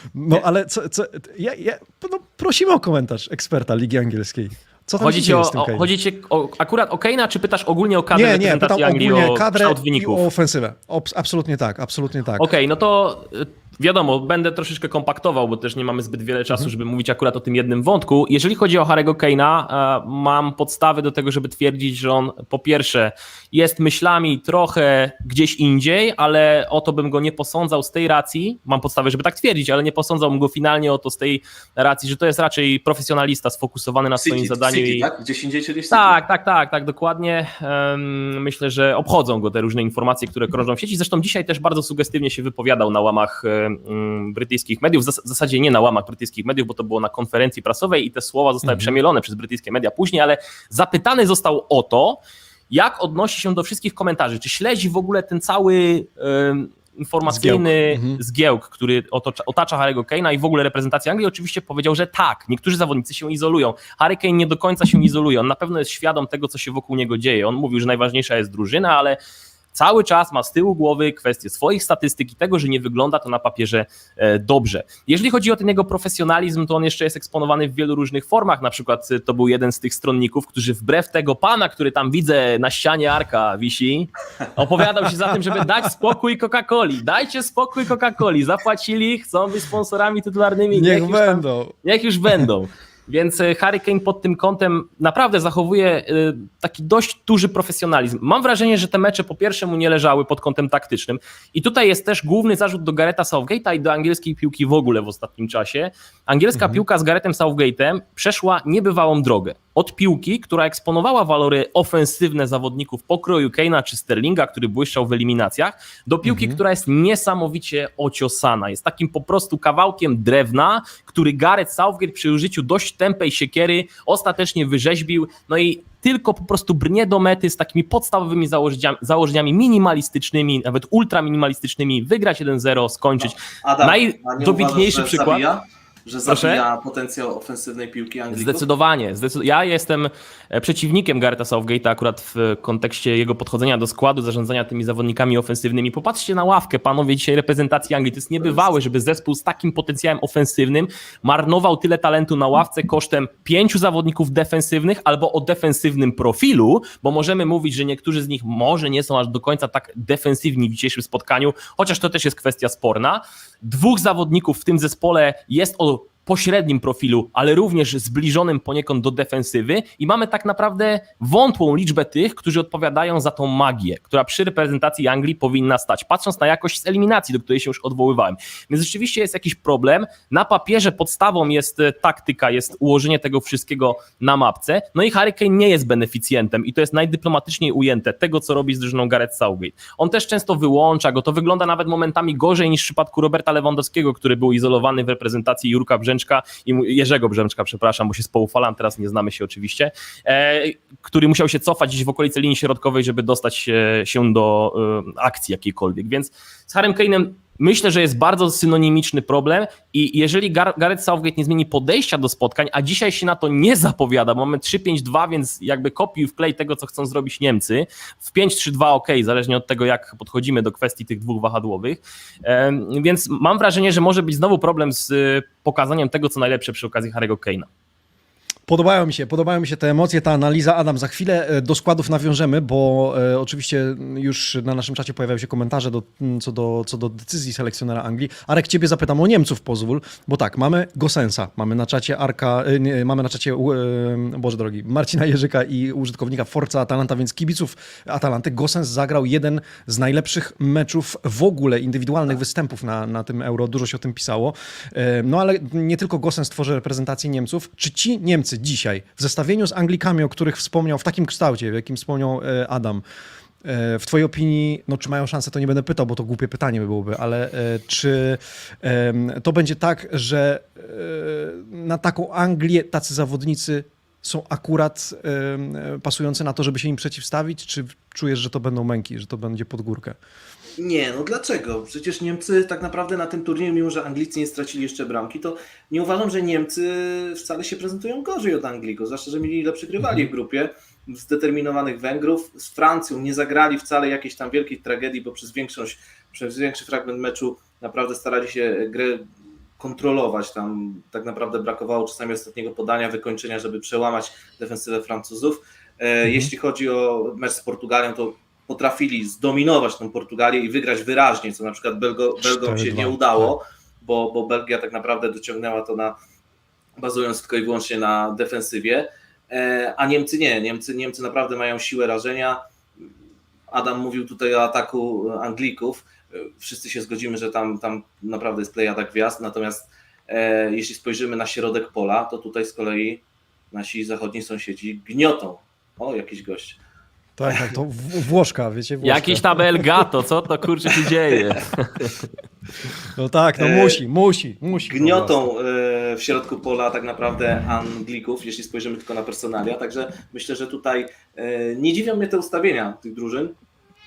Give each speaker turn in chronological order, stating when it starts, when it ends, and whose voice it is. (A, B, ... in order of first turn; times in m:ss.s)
0:00.1-0:05.9 A
0:05.0-0:10.2 B
0:08.1-0:12.5 A
0:12.4-0:35.1 B
0:34.2-0:36.2 C
0:35.9-0:52.2 B
0:48.6-0:49.0 A
0:52.7-1:09.2 B
0:57.3-0:58.2 A
1:09.7-2:15.4 B
1:30.7-1:31.7 A
1:46.5-1:46.8 A
1:56.2-1:56.6 A
2:13.2-2:18.6 C
2:16.3-2:16.6 B
2:18.3-3:47.7 B
3:48.7-4:23.0 A
4:23.6-4:40.2 A
4:40.8-4:59.2 C
4:59.8-5:16.1 C
5:06.2-5:06.5 A
5:12.4-5:13.5 A
5:17.0-5:22.6 C
5:23.7-5:36.8 C
5:37.4-5:40.0 A
5:37.5-5:37.7 C
5:39.0-5:42.3 B
5:43.1-5:45.4 A
5:43.6-5:44.0 C
5:44.8-5:53.5 C